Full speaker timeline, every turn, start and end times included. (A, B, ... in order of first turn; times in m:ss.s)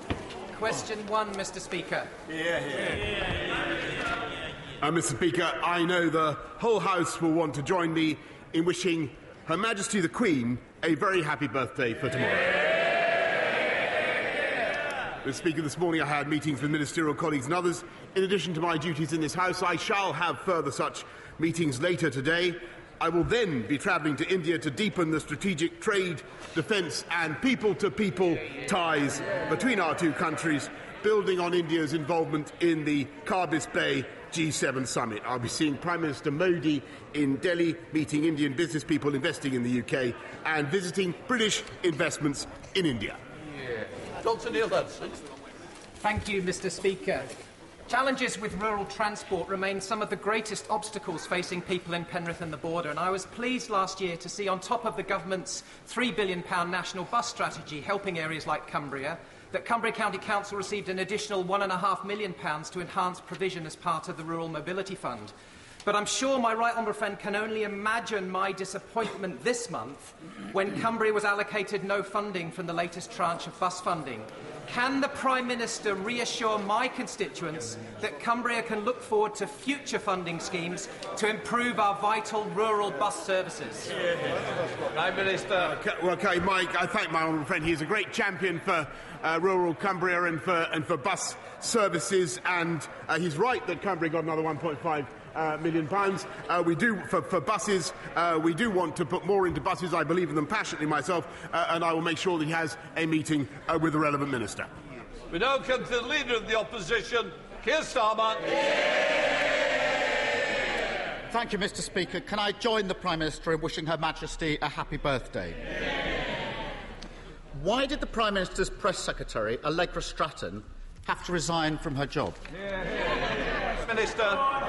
0:00.5-0:02.1 A
0:04.8-0:12.6 B
0:15.2-0:43.2 B
0:43.7-0:45.2 C
0:46.0-0:47.3 A
0:47.9-1:05.3 A
1:05.8-1:23.9 A
1:24.9-1:25.8 C
1:25.6-1:44.7 B
1:45.3-1:48.5 C
1:51.3-1:55.6 D
1:57.5-2:02.4 D
2:03.8-2:04.4 C